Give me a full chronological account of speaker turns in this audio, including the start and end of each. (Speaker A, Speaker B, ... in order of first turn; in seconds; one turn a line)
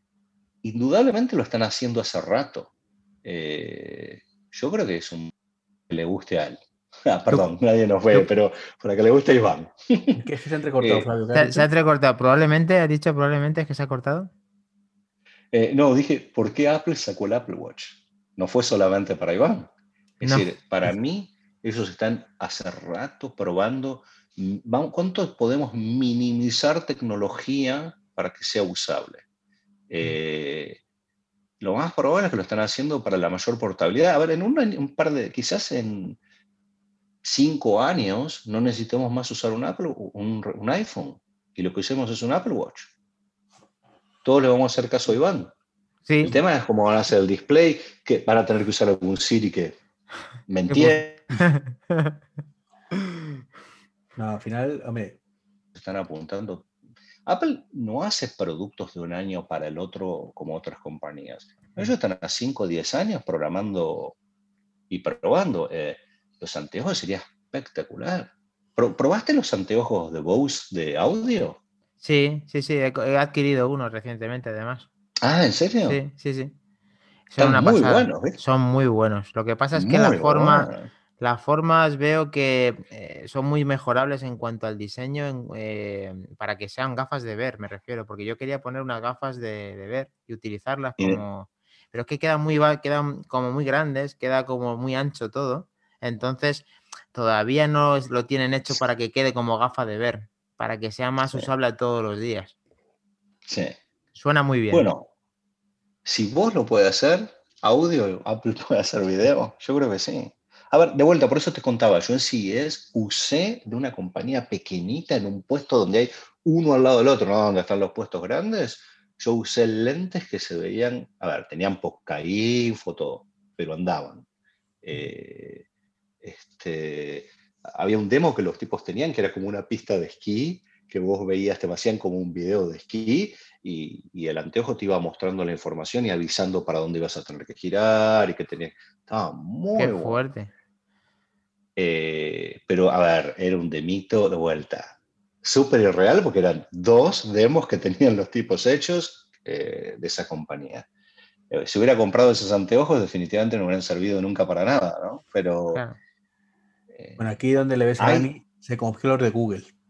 Speaker A: 0.6-2.7
Speaker A: 3.2-5.3
Speaker A: 5.9-10.2
Speaker B: 10.2-11.7
Speaker A: 10.8-11.1
Speaker C: 11.3-14.3
Speaker A: 15.5-29.2
Speaker C: 20.2-20.5
Speaker A: 29.9-30.8
Speaker A: 31.6-36.2
Speaker A: 37.2-42.9
Speaker A: 44.2-45.5
Speaker C: 46.1-46.3
Speaker A: 46.2-49.8
Speaker A: 50.5-51.2
Speaker C: 50.7-52.2
Speaker B: 54.2-55.2
Speaker A: 55.8-56.7
Speaker A: 57.3-64.2
Speaker A: 64.9-71.6
Speaker C: 72.0-74.9
Speaker A: 75.2-76.0
Speaker C: 75.9-76.5
Speaker C: 77.3-102.5
Speaker A: 77.4-78.4
Speaker A: 79.8-80.9
Speaker A: 91.0-91.2
Speaker A: 103.5-103.8
Speaker C: 104.2-104.9
Speaker A: 104.7-105.1
Speaker A: 106.0-124.2
Speaker A: 124.8-125.7
Speaker A: 126.2-140.2
Speaker C: 139.8-140.5
Speaker A: 141.8-150.9
Speaker A: 151.5-155.8
Speaker A: 156.9-157.2
Speaker B: 157.2-159.7
Speaker A: 158.0-158.3